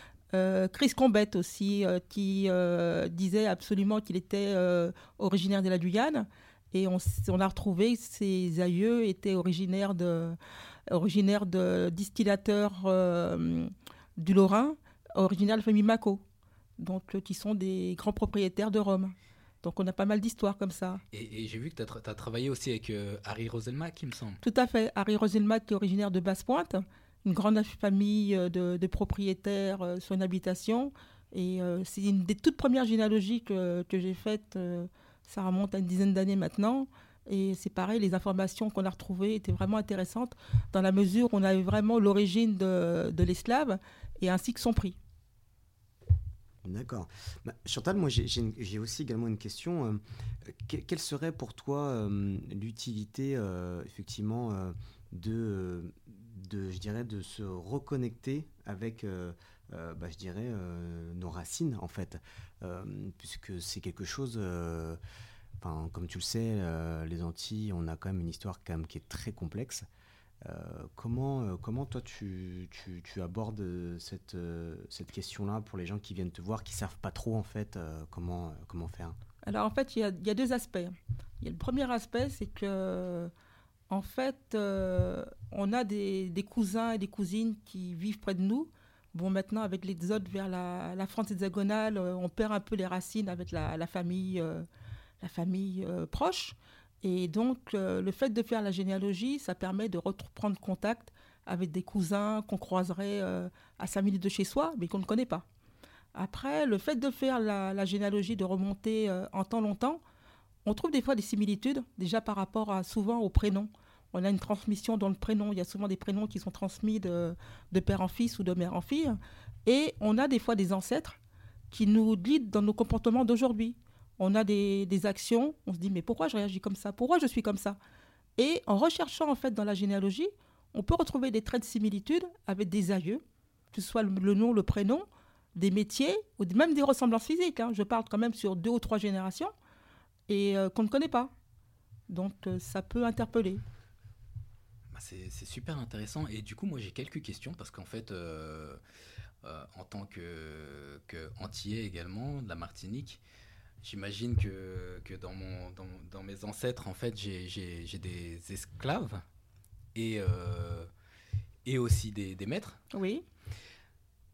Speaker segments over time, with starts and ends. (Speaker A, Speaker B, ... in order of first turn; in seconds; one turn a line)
Speaker A: 0.3-16.2
Speaker A: 16.8-21.0
Speaker B: 21.1-24.4
Speaker A: 24.4-45.0
Speaker C: 46.6-65.0
Speaker C: 65.6-69.9
Speaker C: 70.4-79.2
Speaker A: 79.4-83.3
Speaker A: 83.9-94.7
Speaker A: 95.2-105.5
Speaker A: 106.2-110.0
Speaker A: 110.7-121.2
Speaker A: 121.7-127.8
Speaker A: 128.4-139.5
Speaker A: 140.3-141.3
Speaker A: 142.1-143.6
Speaker B: 144.9-148.8
Speaker B: 149.4-153.2
Speaker B: 153.8-159.2
Speaker B: 159.9-160.9
Speaker B: 161.7-162.8
Speaker A: 162.9-163.2